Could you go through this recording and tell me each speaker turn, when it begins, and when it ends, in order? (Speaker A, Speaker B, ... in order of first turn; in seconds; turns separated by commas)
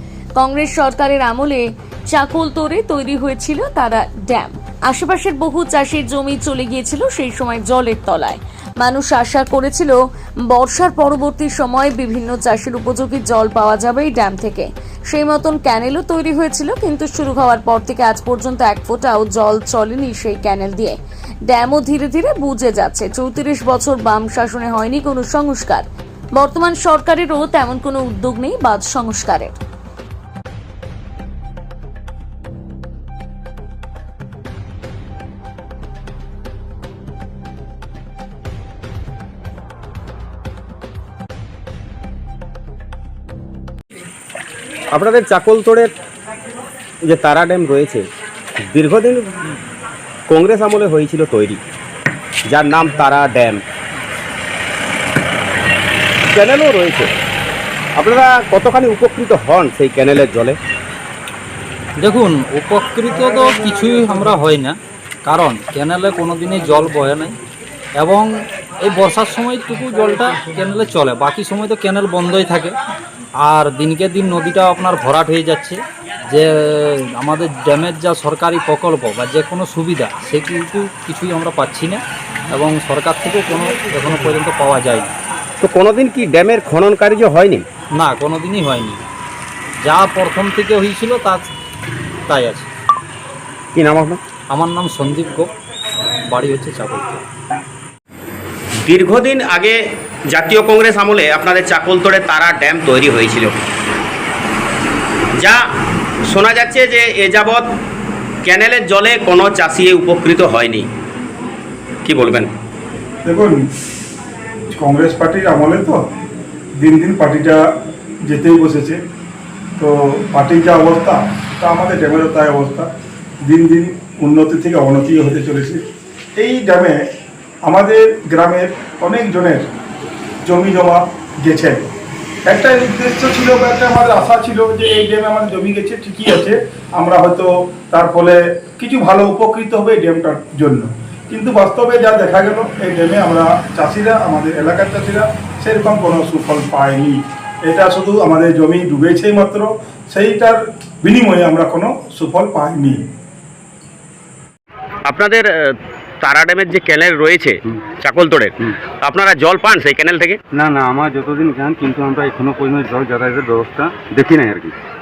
Speaker A: 0.4-10.0, Speaker A: 10.5-21.0, Speaker A: 21.5-29.6, Speaker B: 44.9-45.9, Speaker B: 47.0-48.0, Speaker B: 48.7-49.5, Speaker B: 50.3-51.6, Speaker B: 52.5-53.6, Speaker B: 56.3-57.1, Speaker B: 58.0-60.6, Speaker C: 62.0-67.3, Speaker C: 68.0-68.3, Speaker C: 68.8-72.7, Speaker C: 73.4-85.1, Speaker B: 85.6-87.6, Speaker C: 88.0-89.0, Speaker C: 89.8-91.5, Speaker C: 92.3-92.7, Speaker B: 93.7-94.2, Speaker C: 94.5-95.5, Speaker C: 96.3-97.2, Speaker B: 98.8-103.6, Speaker B: 105.3-105.6, Speaker B: 106.2-107.7, Speaker B: 108.4-110.9, Speaker B: 112.0-112.5, Speaker D: 113.2-113.6, Speaker D: 114.7-116.0, Speaker D: 116.8-117.6, Speaker D: 118.2-119.0, Speaker D: 119.8-122.9, Speaker D: 123.4-125.8, Speaker D: 126.4-127.0, Speaker D: 127.7-129.7, Speaker D: 130.4-131.8, Speaker D: 132.5-153.0, Speaker B: 155.1-160.4, Speaker E: 160.5-164.7